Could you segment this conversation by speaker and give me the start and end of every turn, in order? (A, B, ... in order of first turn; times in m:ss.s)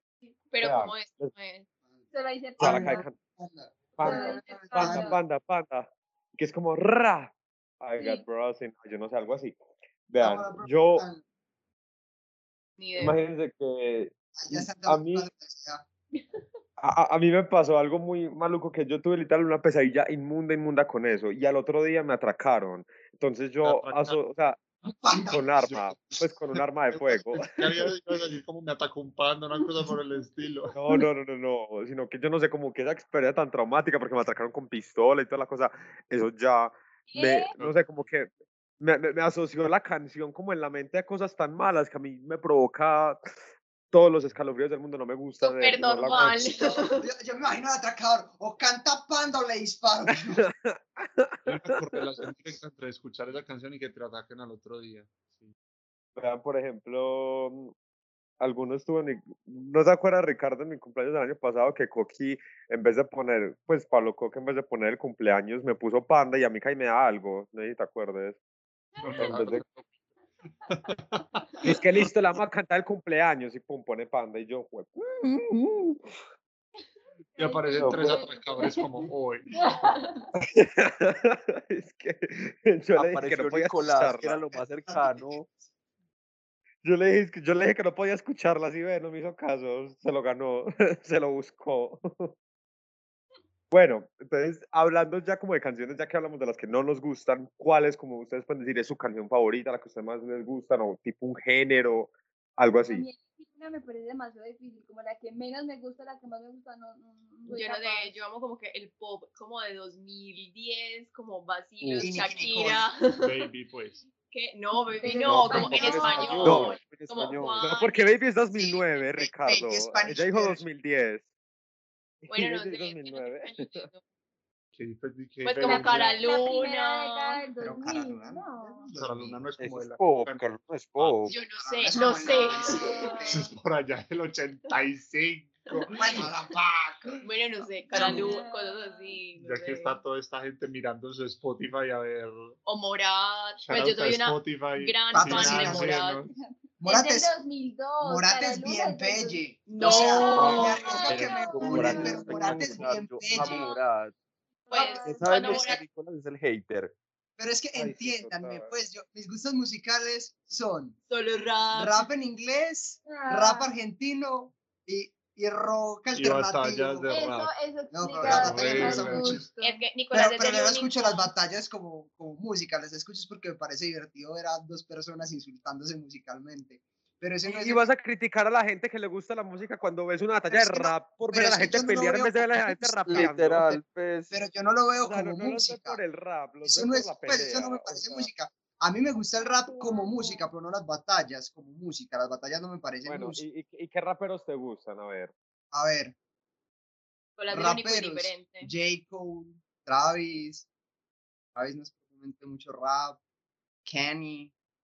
0:00.5-0:01.7 A
0:00.6-0:01.3 B
0:02.1-0:03.0 C
0:02.6-0:05.2 D
0:02.6-0:03.2 B
0:04.0-0:09.6 B
0:04.0-0:05.2 C
0:10.1-0:11.0 B
0:10.2-0:11.2 D
0:12.8-0:13.2 A
0:13.0-0:15.3 B
0:14.4-0:15.8 D
0:16.1-0:16.4 A
0:16.8-0:24.6 B
0:23.6-0:24.2 E
0:24.8-0:25.5 D
0:25.3-0:27.6 B
0:25.6-0:26.2 E
0:26.9-0:30.8 E
0:30.7-0:43.4 B
0:37.1-0:37.5 C
0:37.6-0:38.0 E
0:43.9-0:46.5 B
0:45.4-0:47.0 A
0:46.5-0:50.4 D
0:50.3-0:52.3 B
0:51.4-0:55.5 E
0:56.2-0:57.7 B
0:58.4-1:08.4 B
1:09.0-1:09.6 E
1:09.1-1:09.8 B
1:10.7-1:12.1 E
1:11.6-1:16.1 B
1:17.4-1:18.8 C
1:17.4-1:19.5 E
1:17.8-1:18.2 F
1:19.5-1:20.2 C
1:20.4-1:24.4 B
1:22.9-1:25.5 F
1:24.8-1:25.4 D
1:26.8-1:32.3 B
1:33.7-1:43.0 B
1:42.9-1:48.2 C
1:47.5-1:53.5 A
1:52.0-1:52.8 D
1:53.1-1:54.0 E
1:54.3-1:58.4 A
1:55.0-1:56.8 C
1:55.0-1:56.6 D
1:55.3-2:01.3 B
1:56.4-1:56.7 F
1:58.6-2:00.6 D
2:02.2-2:03.9 B
2:02.3-2:04.0 A
2:04.7-2:06.2 E
2:05.4-2:07.4 A
2:05.6-2:08.9 C
2:07.6-2:09.5 D
2:09.0-2:10.4 E
2:09.6-2:11.4 F
2:11.0-2:11.3 E
2:11.3-2:13.2 A
2:11.3-2:13.5 D
2:12.3-2:13.5 C
2:13.3-2:16.3 E
2:15.9-2:17.1 D
2:17.2-2:20.0 A
2:17.9-2:19.2 C
2:17.9-2:18.3 E
2:19.4-2:22.6 E
2:22.6-2:26.2 A
2:23.6-2:26.3 E
2:25.1-2:26.0 D
2:26.3-2:32.6 C
2:26.8-2:27.3 D
2:28.0-2:33.7 D
2:29.7-2:31.1 A
2:29.8-2:34.1 F
2:33.3-2:33.8 C
2:34.7-2:35.7 C
2:34.7-2:35.8 A
2:35.0-2:36.9 F
2:37.4-2:41.0 D
2:37.7-2:38.7 B
2:41.1-2:42.1 A
2:41.7-2:47.4 D
2:43.1-2:43.7 C
2:46.1-2:47.5 E
2:47.1-2:49.8 C
2:47.9-2:49.4 D
2:48.2-2:49.4 E
2:49.6-2:51.3 A
2:50.1-2:57.8 D
2:57.4-3:03.8 B
3:00.5-3:03.3 D
3:03.1-3:04.4 F
3:04.3-3:06.0 D
3:05.0-3:08.3 B
3:06.6-3:13.4 D
3:09.6-3:10.5 C
3:13.1-3:15.3 B
3:15.7-3:16.1 D
3:17.4-3:18.7 A
3:17.5-3:20.7 D
3:21.5-3:23.2 D
3:23.8-3:24.5 D